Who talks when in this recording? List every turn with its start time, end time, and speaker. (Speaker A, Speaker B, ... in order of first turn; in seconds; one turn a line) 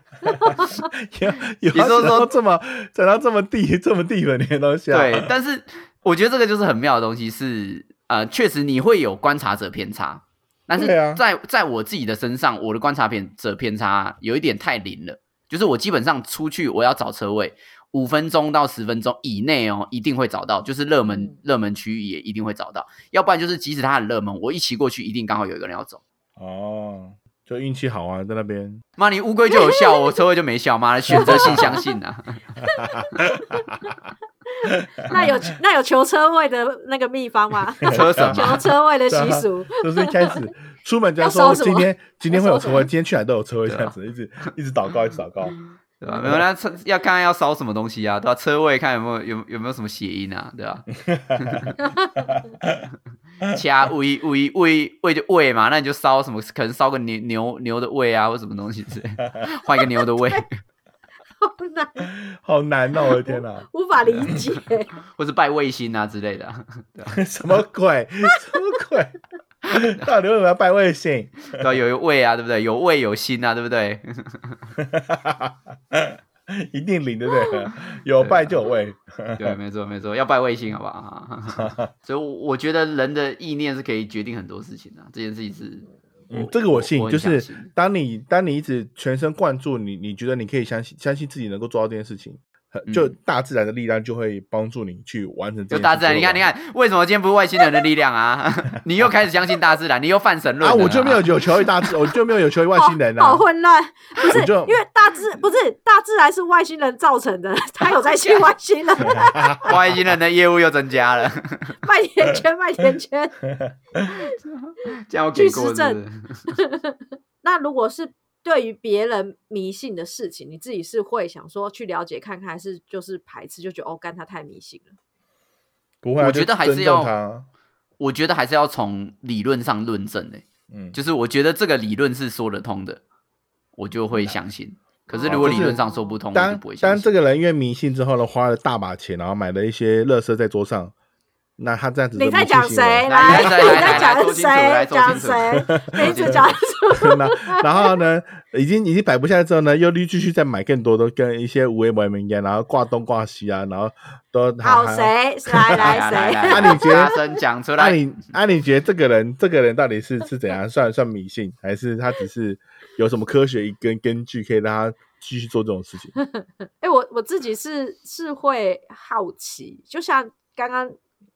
Speaker A: 0.2-5.3
Speaker B: 0.3-0.7
Speaker C: 1.7-2.3
Speaker C: 4.9-26.0
Speaker A: 10.8-11.2
Speaker B: 21.1-21.4
Speaker A: 26.4-28.8
Speaker C: 29.0-32.5
Speaker B: 29.5-30.1
Speaker A: 31.1-31.8
Speaker B: 31.1-31.8
Speaker A: 32.6-33.9
Speaker B: 33.3-33.9
Speaker B: 34.6-40.4
Speaker A: 35.0-35.2
Speaker A: 37.8-45.5
Speaker C: 37.8-38.7
Speaker B: 41.2-42.9
Speaker C: 43.7-44.0
Speaker C: 46.0-51.8
Speaker A: 51.1-51.7
Speaker B: 51.8-52.4
Speaker A: 52.2-52.8
Speaker C: 53.4-60.5
Speaker B: 61.4-62.1
Speaker A: 62.3-63.7
Speaker B: 63.0-64.9
Speaker C: 65.1-67.2
Speaker A: 67.1-69.2
Speaker A: 69.7-71.7
Speaker C: 71.5-74.6
Speaker A: 74.8-79.6
Speaker C: 78.2-78.6
Speaker C: 79.4-87.7
Speaker A: 81.5-81.9
Speaker A: 86.3-96.4
Speaker C: 95.7-101.4
Speaker A: 100.6-103.4
Speaker B: 102.8-109.7
Speaker A: 104.2-104.8
Speaker A: 109.1-109.9
Speaker C: 109.6-111.8
Speaker B: 111.8-113.4
Speaker A: 113.7-114.1
Speaker C: 114.7-116.4
Speaker B: 115.3-124.9
Speaker A: 126.0-127.5
Speaker C: 126.2-127.1
Speaker C: 128.0-133.0
Speaker A: 130.7-131.0
Speaker C: 133.8-137.1
Speaker B: 135.1-136.2
Speaker A: 135.3-135.8
Speaker A: 136.3-140.9
Speaker A: 141.6-144.1
Speaker B: 142.2-147.6
Speaker C: 143.1-146.6
Speaker A: 145.7-146.4
Speaker A: 147.0-157.2
Speaker B: 154.6-157.2
Speaker C: 155.8-158.0
Speaker A: 157.8-166.1
Speaker B: 166.2-170.9